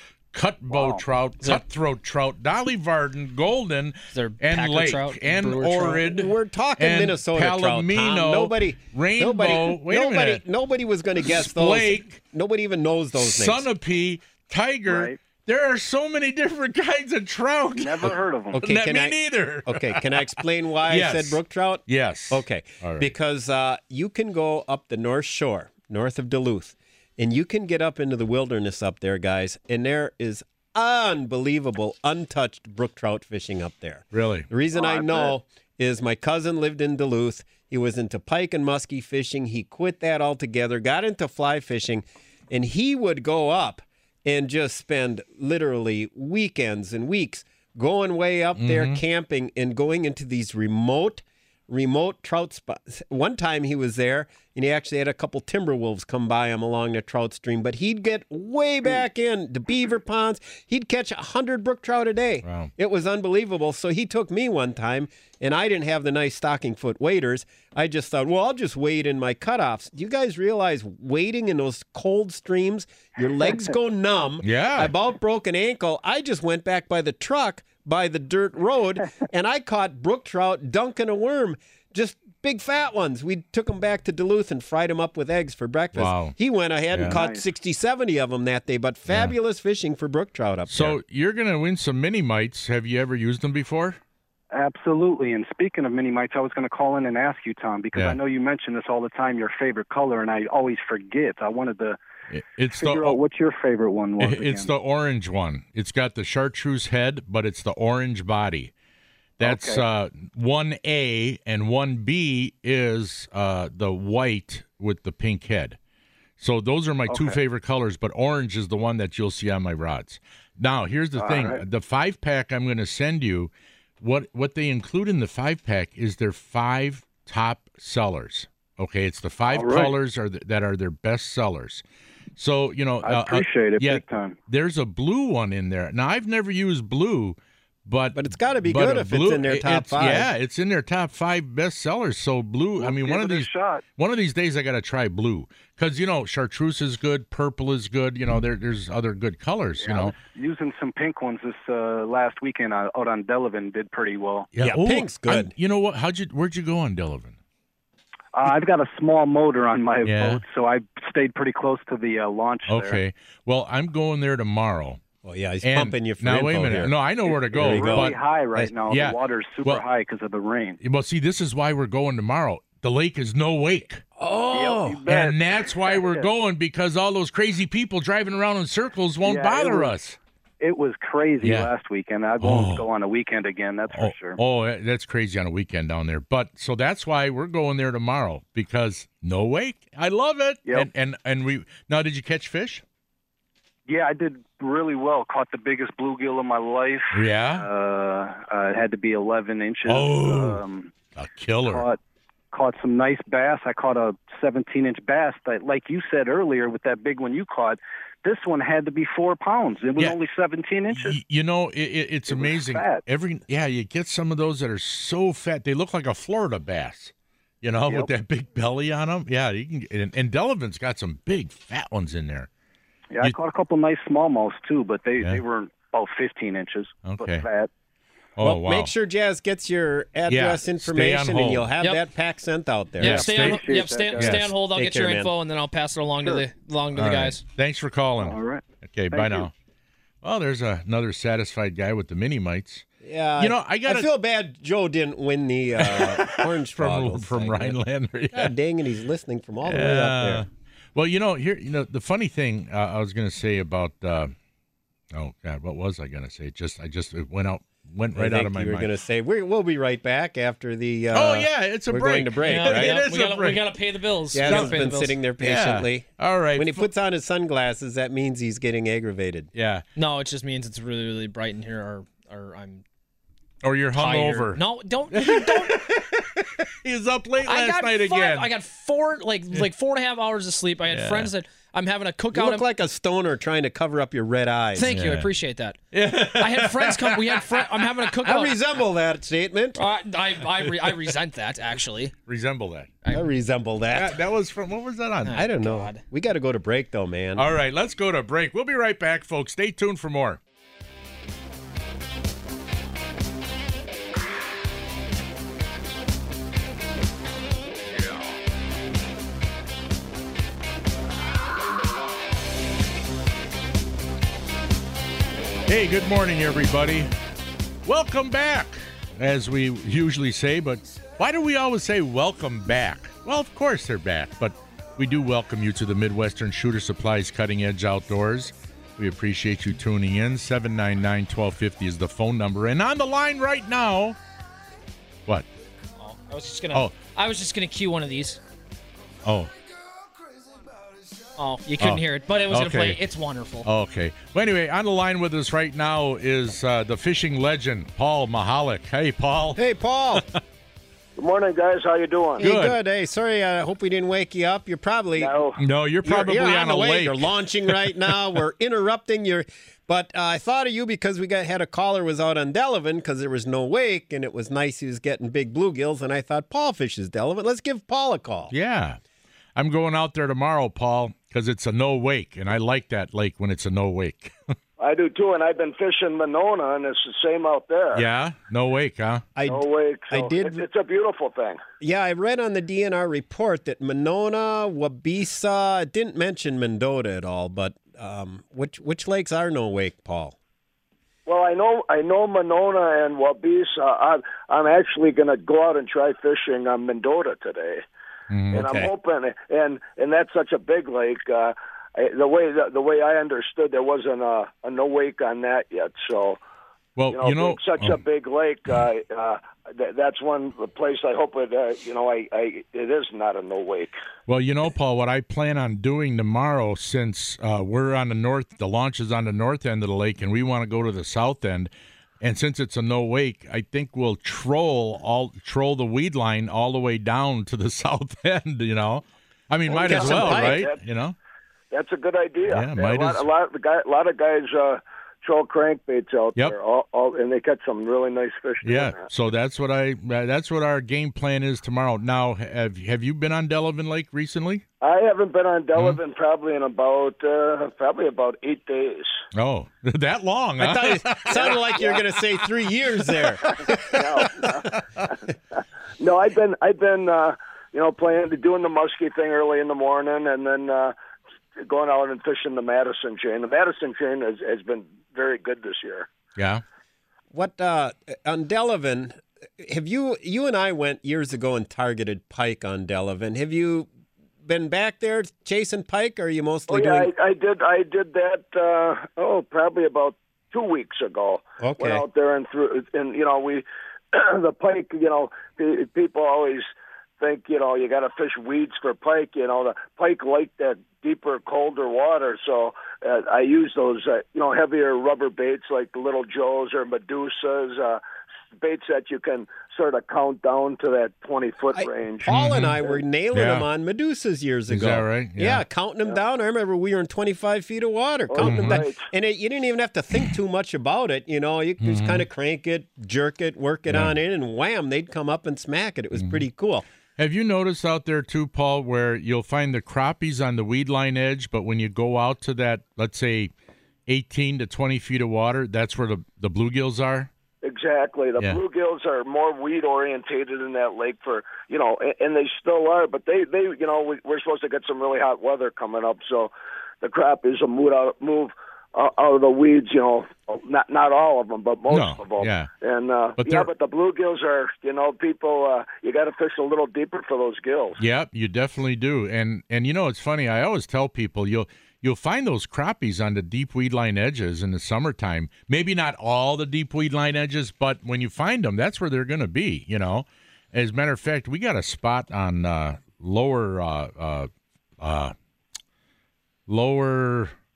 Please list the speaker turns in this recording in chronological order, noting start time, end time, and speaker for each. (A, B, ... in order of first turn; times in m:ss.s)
0:00.3-0:10.4 A
0:04.1-0:06.0 B
0:06.0-0:13.6 C
0:11.2-0:12.2 A
0:13.2-0:23.1 A
0:14.9-0:15.2 D
0:17.8-0:18.6 D
0:18.5-1:31.0 C
0:34.1-0:34.5 A
0:48.6-0:49.0 A
1:02.4-1:02.7 A
1:14.4-1:14.9 A
1:25.9-1:26.4 A
1:26.9-1:27.2 A
1:27.1-1:27.4 D
1:29.1-1:29.3 A
1:30.7-1:34.0 A
1:34.5-1:42.0 D
1:42.3-1:43.2 A
1:42.8-1:44.7 D
1:44.2-1:48.7 A
1:49.4-1:55.8 A
1:49.4-1:49.8 D
1:56.4-2:11.8 A
1:57.1-1:57.4 D
2:01.2-2:01.6 D
2:09.5-2:10.0 D
2:12.4-2:30.1 A
2:13.0-2:14.4 D
2:18.1-2:20.3 C
2:22.8-2:23.8 D
2:29.8-2:34.5 D
2:34.5-2:37.4 A
2:34.6-2:35.5 C
2:38.3-2:43.0 D
2:40.0-2:40.4 A
2:42.7-2:45.0 A
2:45.2-2:46.9 C
2:45.6-2:48.2 A
2:47.4-2:50.8 D
2:47.5-2:48.7 C
2:48.9-2:49.8 A
2:50.8-2:54.0 A
2:54.2-2:55.0 C
2:54.5-2:55.4 D
2:55.0-3:00.2 A
2:55.9-2:56.2 D
2:59.2-2:59.9 D
3:00.6-3:04.4 D
3:01.4-3:01.7 A
3:02.4-3:02.9 A
3:03.9-3:12.8 A
3:13.9-3:20.9 D
3:17.1-3:17.7 A
3:19.8-3:20.6 A
3:21.2-3:21.8 A
3:21.7-3:22.0 D
3:22.5-3:31.2 D
3:30.9-3:42.5 A
3:32.3-3:33.0 D
3:43.1-3:47.7 D
3:47.0-3:47.4 A
3:48.4-3:48.9 A
3:48.4-3:53.3 C
3:50.3-3:51.7 A
3:53.0-3:54.5 A
3:53.0-3:54.4 D
3:53.1-3:57.4 B
3:54.6-3:55.3 C
3:56.9-3:59.5 A
3:58.2-3:59.5 D
4:00.2-4:02.8 A
4:03.0-4:07.8 C
4:03.4-4:04.1 A
4:05.8-4:08.5 A
4:08.3-4:10.4 C
4:09.6-4:14.3 A
4:15.1-4:18.9 A
4:18.1-4:23.0 C
4:21.1-4:23.7 A
4:22.4-4:25.2 B
4:24.3-4:29.5 C
4:24.4-4:24.8 A
4:25.4-4:26.9 A
4:29.5-4:29.8 A
4:30.0-4:32.8 B
4:33.6-4:38.5 A
4:34.0-4:35.8 B
4:37.4-4:42.7 B
4:40.9-4:41.3 A
4:42.3-4:45.0 C
4:44.7-4:48.6 B
4:44.9-4:45.3 A
4:45.9-4:47.6 A
4:48.1-4:49.8 C
4:49.8-4:52.1 B
4:52.3-4:52.9 A
4:53.1-4:54.2 C
4:53.9-4:55.4 A
4:55.2-4:56.0 B
4:55.3-4:57.5 C
4:57.4-5:00.4 A
5:15.7-5:17.1 A
5:17.8-5:34.2 A
5:36.0-5:38.4 B
5:39.2-5:39.5 A
5:41.4-5:43.7 B
5:41.8-5:43.0 A
5:43.6-5:49.6 A
5:49.6-5:50.2 C
5:51.2-5:52.4 E
5:52.4-5:55.3 C
5:52.4-5:52.8 A
5:55.2-5:55.6 E
5:55.6-5:57.8 A
5:56.0-6:08.5 C
6:08.5-6:09.0 A
6:09.6-6:14.3 A
6:14.8-6:18.0 E
6:17.9-6:19.2 A
6:19.4-6:20.6 C
6:19.4-6:21.6 E
6:21.8-6:30.3 C
6:31.2-6:37.8 E
6:38.3-6:38.8 A
6:38.5-6:46.4 E
6:47.0-6:48.0 A
6:47.1-6:53.9 E
6:54.3-7:11.2 A
7:09.7-7:10.6 C
7:09.7-7:10.8 E
7:11.7-7:19.0 E
7:12.5-7:13.3 A
7:18.6-7:24.6 A
7:24.8-7:29.1 E
7:29.3-7:31.6 A
7:30.6-7:34.2 C
7:31.3-7:32.0 E
7:33.7-7:35.1 E
7:36.0-7:40.9 E
7:41.6-7:46.1 E
7:46.4-7:46.6 A
7:47.3-7:53.9 C
7:54.4-7:57.1 C
7:56.7-8:06.7 E
8:01.6-8:02.0 C
8:07.2-8:18.0 E
8:18.6-8:22.3 E
8:21.7-8:36.8 C
8:22.3-8:22.8 A
8:23.3-8:23.6 A
8:24.7-8:25.6 A
8:28.3-8:29.0 E
8:28.4-8:28.8 A
8:31.8-8:32.2 A
8:33.9-8:34.2 A
8:36.2-8:36.4 A
8:37.2-8:43.5 A
8:44.1-8:47.3 A
8:47.6-9:08.0 E
9:01.9-9:02.7 A
9:03.4-9:03.7 A
9:08.0-9:24.5 A
9:25.0-9:25.3 A
9:26.7-9:27.5 A